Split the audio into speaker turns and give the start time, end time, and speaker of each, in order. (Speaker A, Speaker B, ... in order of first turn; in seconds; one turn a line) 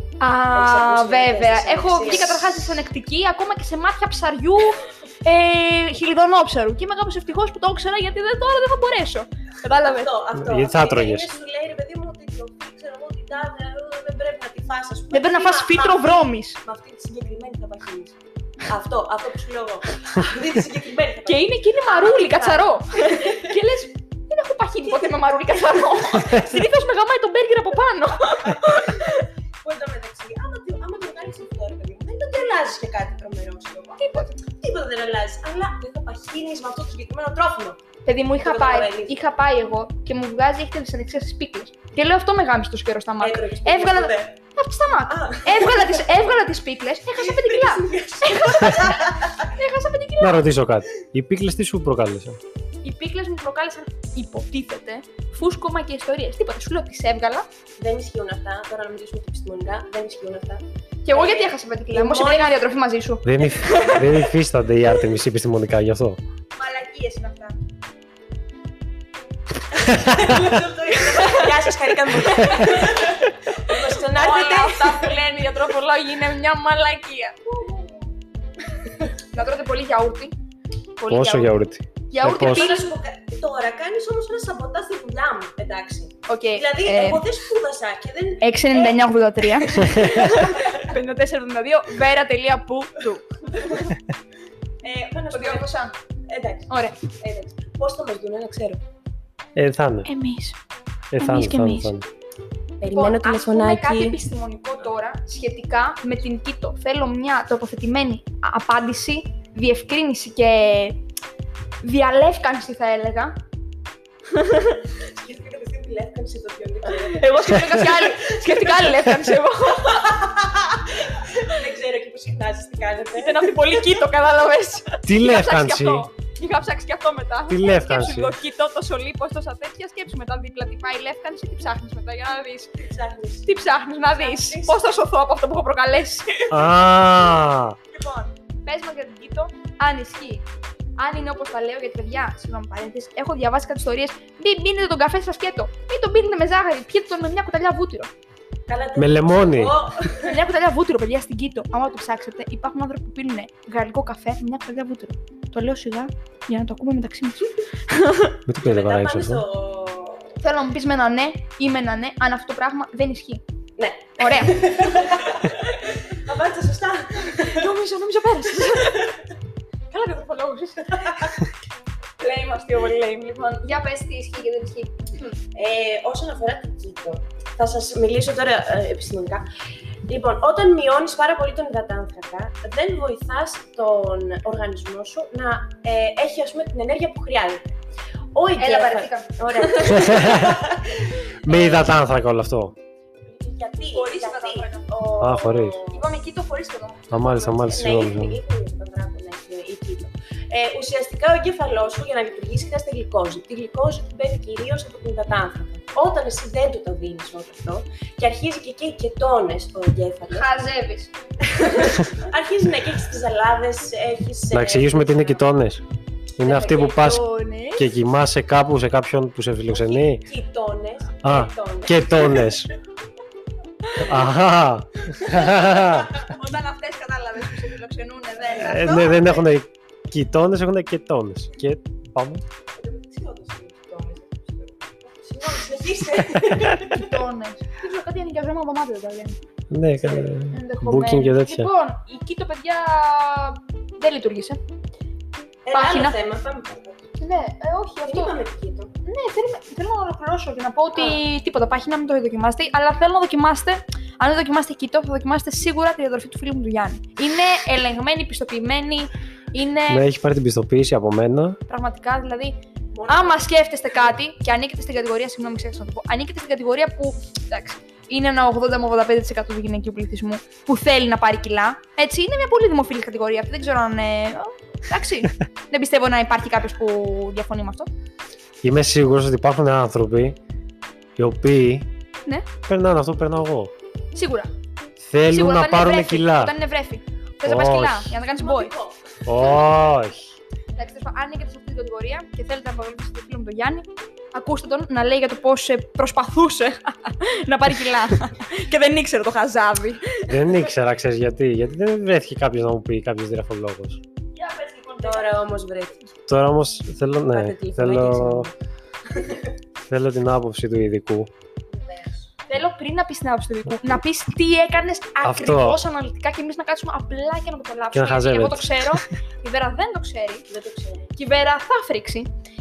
Speaker A: 0.2-10.1
Speaker B: 0.5-2.5
Speaker B: 9.8-23.5
Speaker C: 10.3-11.3
Speaker A: 15.1-16.6
Speaker A: 21.3-29.3
Speaker B: 28.7-29.0
Speaker B: 29.6-37.8
Speaker A: 34.0-34.4
Speaker A: 38.1-50.5
Speaker B: 38.4-39.2
Speaker B: 43.2-44.4
Speaker B: 45.1-46.1
Speaker B: 47.2-49.5
Speaker C: 50.2-52.4
Speaker A: 52.8-57.5
Speaker B: 57.8-62.6
Speaker A: 61.0-64.0
Speaker C: 63.2-66.2
Speaker B: 63.7-64.1
Speaker A: 66.6-67.6
Speaker B: 69.8-75.2
Speaker C: 69.9-70.3
Speaker A: 71.0-73.2
Speaker A: 73.7-77.9
Speaker A: 79.3-80.3
Speaker A: 81.0-81.5
Speaker C: 81.1-82.7
Speaker A: 82.1-82.9
Speaker B: 82.3-89.0
Speaker A: 86.3-87.2
Speaker A: 88.4-93.9
Speaker B: 89.5-90.9
Speaker B: 94.8-95.7
Speaker A: 95.3-95.9
Speaker B: 96.3-98.8
Speaker A: 96.7-97.0
Speaker C: 99.6-100.1
Speaker A: 100.1-100.6
Speaker C: 101.1-102.1
Speaker A: 101.2-101.9
Speaker B: 102.8-104.2
Speaker A: 102.9-111.0
Speaker A: 111.8-113.4
Speaker A: 114.3-114.8
Speaker B: 115.0-118.8
Speaker A: 117.0-120.2
Speaker B: 119.9-123.9
Speaker A: 123.2-132.7
Speaker C: 125.1-126.1
Speaker C: 127.5-128.3
Speaker B: 132.8-133.5
Speaker A: 133.4-136.6
Speaker B: 134.1-134.9
Speaker C: 136.5-137.8
Speaker A: 137.9-140.5
Speaker A: 141.0-148.1
Speaker B: 148.7-150.4
Speaker C: 149.0-149.8
Speaker A: 150.2-158.4
Speaker C: 158.5-159.4
Speaker B: 158.6-160.4
Speaker A: 160.4-163.4
Speaker B: 163.8-167.7
Speaker A: 164.2-164.7
Speaker A: 167.4-169.1
Speaker B: 168.7-169.1
Speaker A: 169.9-171.2
Speaker B: 170.9-171.3
Speaker A: 172.2-175.0
Speaker B: 175.5-179.5
Speaker B: 180.1-187.8
Speaker B: 188.3-191.1
Speaker A: 188.6-190.5
Speaker C: 190.0-190.6
Speaker C: 191.4-192.8
Speaker A: 191.5-191.8
Speaker B: 193.3-196.1
Speaker A: 193.9-194.9
Speaker C: 195.2-195.8
Speaker A: 195.9-197.9
Speaker C: 197.1-198.4
Speaker B: 197.7-210.5
Speaker A: 210.3-211.9
Speaker B: 211.5-215.4
Speaker C: 214.5-215.8
Speaker C: 216.4-220.2
Speaker A: 216.4-217.9
Speaker B: 219.7-222.5
Speaker C: 221.2-222.7
Speaker C: 224.0-226.1
Speaker A: 225.3-229.2
Speaker C: 228.6-232.4
Speaker B: 228.7-229.4
Speaker B: 232.8-237.1
Speaker A: 236.8-239.4
Speaker C: 239.7-241.7
Speaker B: 240.0-240.3
Speaker A: 240.5-244.6
Speaker B: 245.7-247.1
Speaker A: 245.7-246.2
Speaker A: 247.2-248.3
Speaker B: 248.1-248.9
Speaker A: 249.1-260.1
Speaker B: 250.9-251.2
Speaker C: 259.9-261.6
Speaker A: 261.7-277.9
Speaker B: 262.9-263.7
Speaker C: 278.6-280.4
Speaker C: 281.2-281.9
Speaker C: 282.7-283.7
Speaker A: 284.1-284.5
Speaker C: 285.0-286.5
Speaker A: 285.3-288.7
Speaker C: 287.4-288.1
Speaker B: 288.3-289.5
Speaker C: 289.3-290.3
Speaker A: 290.8-300.3
Speaker C: 300.3-304.0
Speaker A: 304.4-305.5
Speaker B: 305.0-306.1
Speaker C: 306.3-308.5
Speaker B: 307.3-308.5
Speaker B: 309.1-309.5
Speaker C: 309.9-311.3
Speaker B: 311.7-312.3
Speaker A: 312.5-320.5
Speaker C: 315.2-315.8
Speaker C: 317.9-319.0
Speaker B: 320.5-321.1
Speaker A: 321.2-322.3